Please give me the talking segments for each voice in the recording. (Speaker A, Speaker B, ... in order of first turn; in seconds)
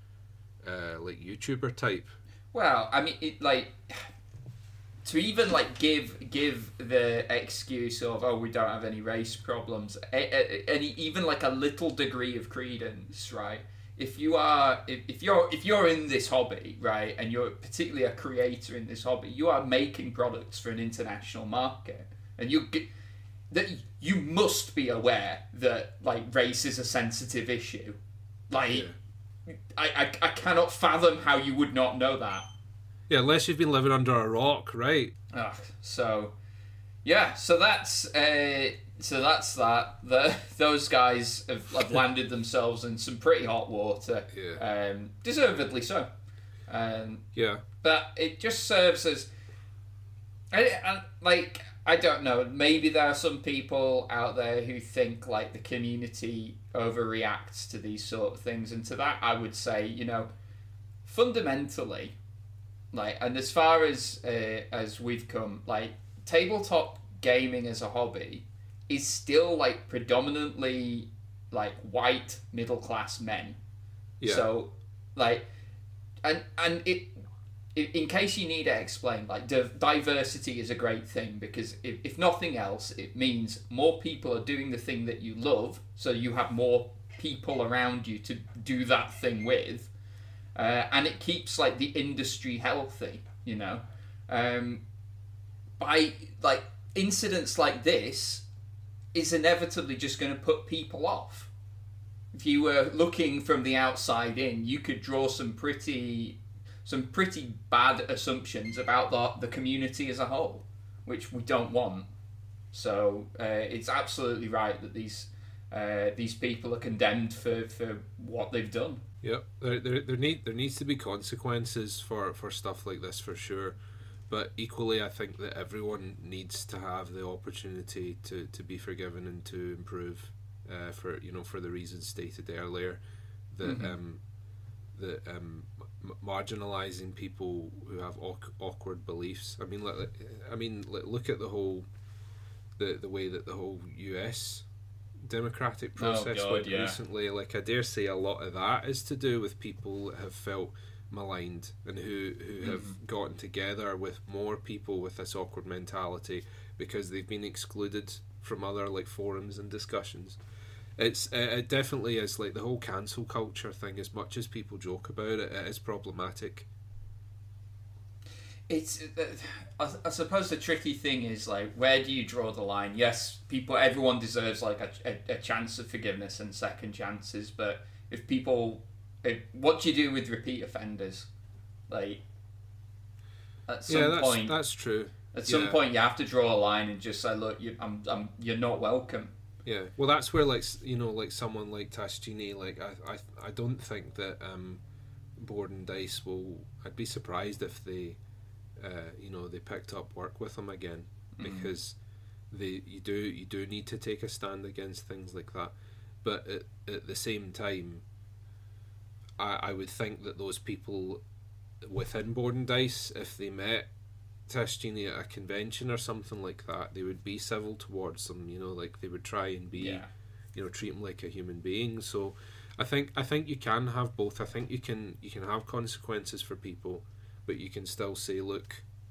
Speaker A: 0.6-2.1, 28.7-28.9, 33.1-35.1, 44.3-44.6, 47.3-47.6, 74.2-74.5, 119.2-123.8, 124.3-134.2, 134.9-141.9, 142.8-144.7, 145.2-160.4, 161.0-166.7, 183.9-185.8, 189.6-194.8, 195.4-198.2, 198.8-202.0, 202.5-208.0, 209.4-211.2, 211.8-213.9, 214.5-228.8
Speaker B: 2.5-4.1, 5.0-22.9, 23.5-28.0, 28.5-28.9, 29.5-32.5, 35.3-36.3, 37.0-46.1, 46.7-47.2, 47.8-49.3, 50.5-60.3, 61.0-62.1, 62.9-73.6, 74.2-75.5, 76.2-77.2, 77.7-89.9, 90.5-94.8, 95.8-98.5, 99.1-101.5, 102.3-112.1, 112.7-119.0, 133.6-133.9, 146.0-147.0, 152.6-152.9, 168.7-181.3, 181.9-182.2, 183.7-184.6, 185.3-189.3, 201.3-201.7, 219.7-220.1